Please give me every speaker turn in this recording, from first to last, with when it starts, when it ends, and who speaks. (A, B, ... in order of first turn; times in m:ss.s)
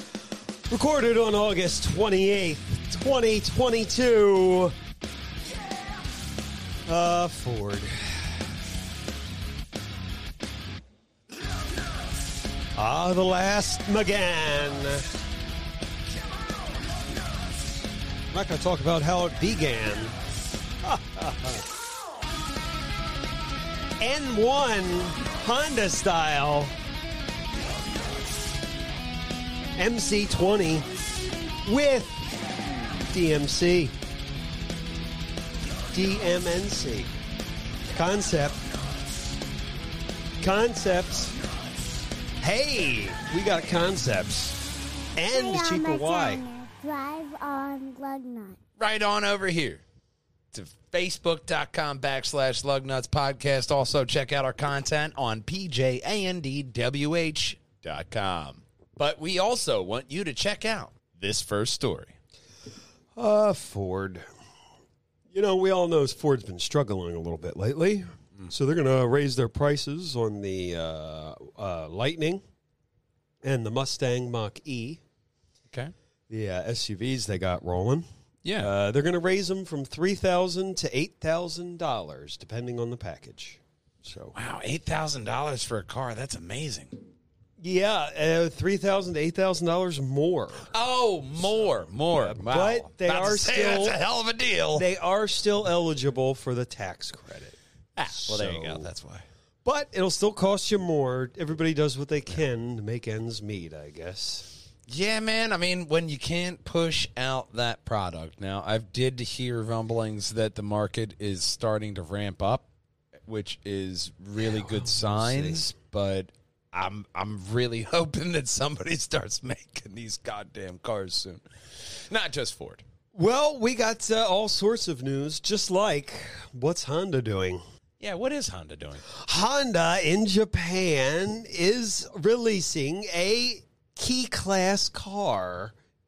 0:00.7-0:04.8 A
0:06.9-0:08.4 A
0:12.8-0:15.1 A
0:18.3-0:20.2 A
0:20.8-0:21.7 A
0:24.0-0:26.7 A
0:29.8-0:30.9 A
0:31.6-0:32.2 A
0:33.1-0:33.9 A
0:35.9-0:37.1 A
0:37.9-0:38.6 A
0:40.4-0:41.4 A
0:42.4-0:44.6 A
0:45.2-0:46.4 A
0:45.3-0:48.6 B
0:48.8-0:49.8 C
0:50.5-1:02.2 C
1:03.2-1:04.2 A
1:05.3-1:12.4 A
1:13.4-1:15.0 A
1:16.3-1:18.1 A
1:18.4-1:18.7 C
1:18.6-1:24.3 A
1:24.3-1:27.0 C
1:27.6-1:30.7 A
1:30.6-1:34.9 C
1:32.1-1:34.0 A
1:34.8-1:37.6 A
1:38.0-1:39.2 C
1:38.2-1:38.9 A
1:39.6-1:44.5 A
1:44.9-1:52.7 C
1:53.3-2:02.8 C
1:54.4-1:55.7 A
2:03.1-2:07.6 A
2:08.0-2:09.1 C
2:09.1-2:15.8 A